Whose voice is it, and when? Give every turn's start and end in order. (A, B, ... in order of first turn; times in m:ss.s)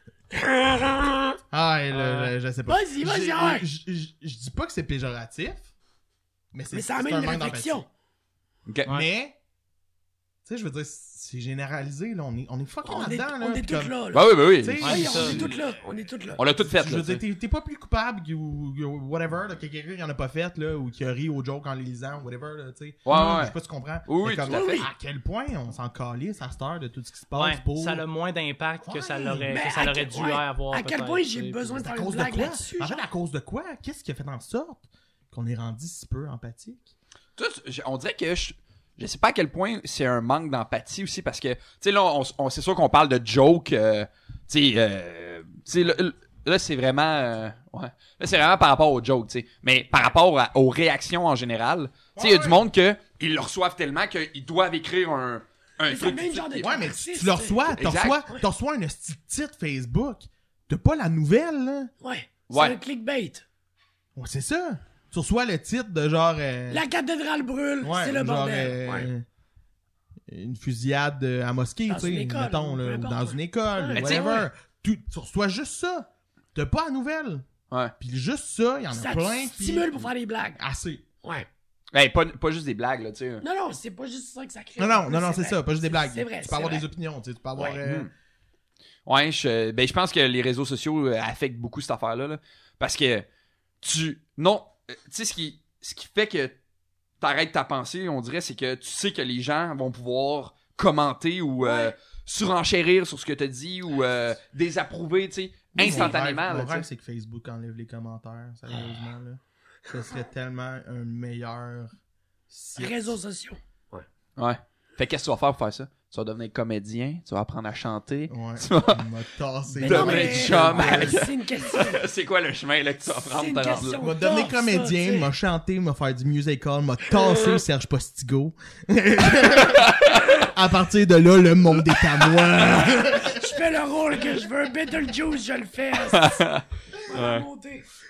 0:00.3-0:01.4 A
0:01.5-0:05.7 B
0:01.9-0:02.3 C
0:02.7-0:03.6 A
0:06.5-0:07.8 B
0:06.7-0:07.9 A
0:08.7-0:09.0 D
0:08.9-0:09.4 B
0:10.4-0:13.9 B
0:12.8-0:16.4 A
0:14.1-0:15.5 D
0:14.5-0:15.6 B
0:14.8-0:15.4 C
0:16.4-0:17.2 D
0:16.6-0:28.0 B
0:23.0-0:24.8 D
0:24.5-0:24.9 A
0:27.4-0:31.8 C
0:28.8-0:29.5 B
0:29.5-0:33.0 A
0:31.8-0:37.0 B
0:37.4-0:56.8 D
0:52.2-0:52.6 B
0:55.9-0:57.8 A
0:56.6-1:01.9 B
0:57.7-0:58.2 D
1:02.0-1:03.4 A
1:02.5-1:02.8 D
1:04.2-1:06.8 B
1:06.7-1:09.1 A
1:07.8-1:09.2 B
1:10.3-1:17.5 B
1:11.9-1:14.4 A
1:14.0-1:14.5 D
1:18.0-1:20.0 B
1:18.9-1:20.6 A
1:20.6-1:21.0 B
1:21.2-1:21.5 A
1:21.9-1:23.4 D
1:23.4-1:26.9 A
1:24.8-1:28.1 B
1:27.6-1:28.1 D
1:29.1-1:33.3 D
1:33.8-1:36.6 D
1:37.2-1:46.9 D
1:41.6-1:42.0 A
1:45.8-1:46.1 A
1:45.8-1:51.9 B
1:52.5-1:53.2 B
1:52.8-1:54.1 A
1:54.4-1:59.1 D
1:58.3-2:01.3 B
1:59.8-2:02.0 A
1:59.8-2:04.0 D
2:03.3-2:05.3 A
2:04.0-2:13.6 B
2:09.6-2:10.4 D
2:12.6-2:16.4 A
2:16.0-2:17.4 D
2:17.1-2:17.9 A